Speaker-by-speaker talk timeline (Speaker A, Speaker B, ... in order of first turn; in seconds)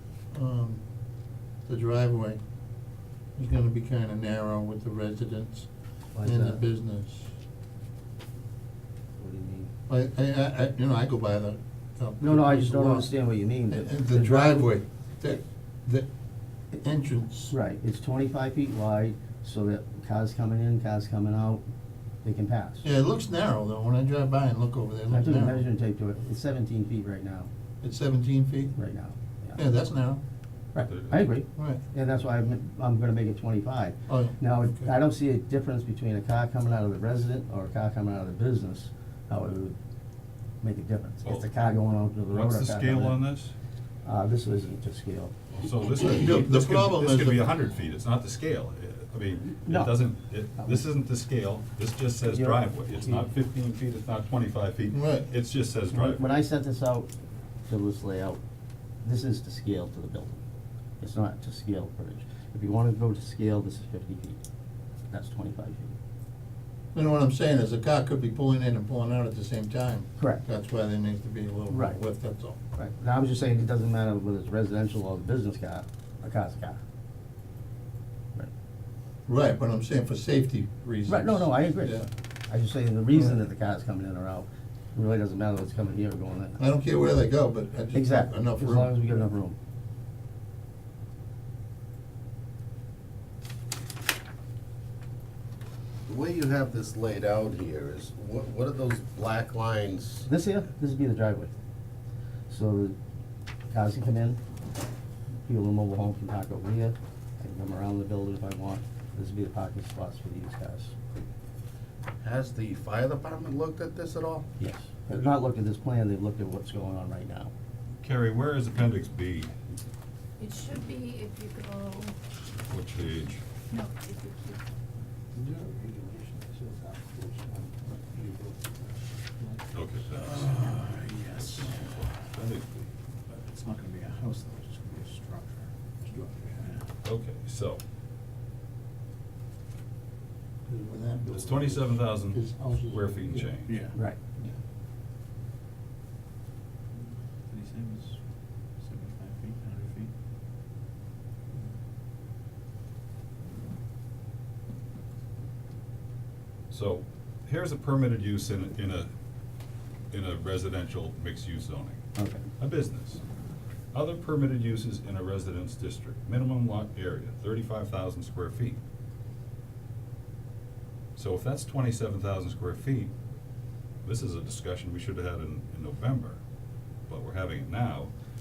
Speaker A: 0.3-0.8, 1.7-2.4, 3.4-5.7, 6.2-7.3, 9.9-13.1, 13.7-16.1, 16.7-17.5, 22.8-25.6, 27.8-28.8, 29.6-30.2, 31.6-31.8, 34.1-34.9, 46.0-47.5, 54.9-55.3, 66.9-72.6, 79.3-82.1, 86.6-89.2, 125.4-128.6, 140.7-143.5
Speaker B: 6.1-6.6, 9.2-9.7, 12.2-14.6, 17.5-21.6, 22.2-22.9, 25.1-27.5, 28.8-29.6, 30.7-39.8, 40.6-43.2, 44.0-45.5, 49.6-50.0, 50.6-50.8, 52.2-53.3, 55.9-57.1, 57.7-58.4, 59.0-60.4, 61.0-64.4, 65.1-66.0, 70.2-70.4, 71.7-72.0, 72.8-76.8, 81.1-86.6, 87.9-89.6, 100.3-101.5, 102.5-103.0, 103.7-104.4, 105.5-110.9, 114.6-117.5, 143.9-144.2, 162.2-162.4
Speaker C: 30.9-31.3, 41.2-41.5, 42.3-43.5, 45.6-56.2, 118.0-119.5, 122.7-123.4, 129.7-130.6, 131.3-132.9, 137.0-137.8, 141.3-143.9, 156.7-159.1, 160.1-162.0, 162.6-163.2, 163.9-168.8, 171.2-173.1, 174.0-176.4, 177.1-178.1
Speaker D: 96.1-100.2, 112.2-114.5
Speaker E: 120.4-122.2, 123.7-124.6
Speaker F: 130.2-132.2, 133.3-136.9, 143.7-143.9, 147.4-148.2, 148.8-150.1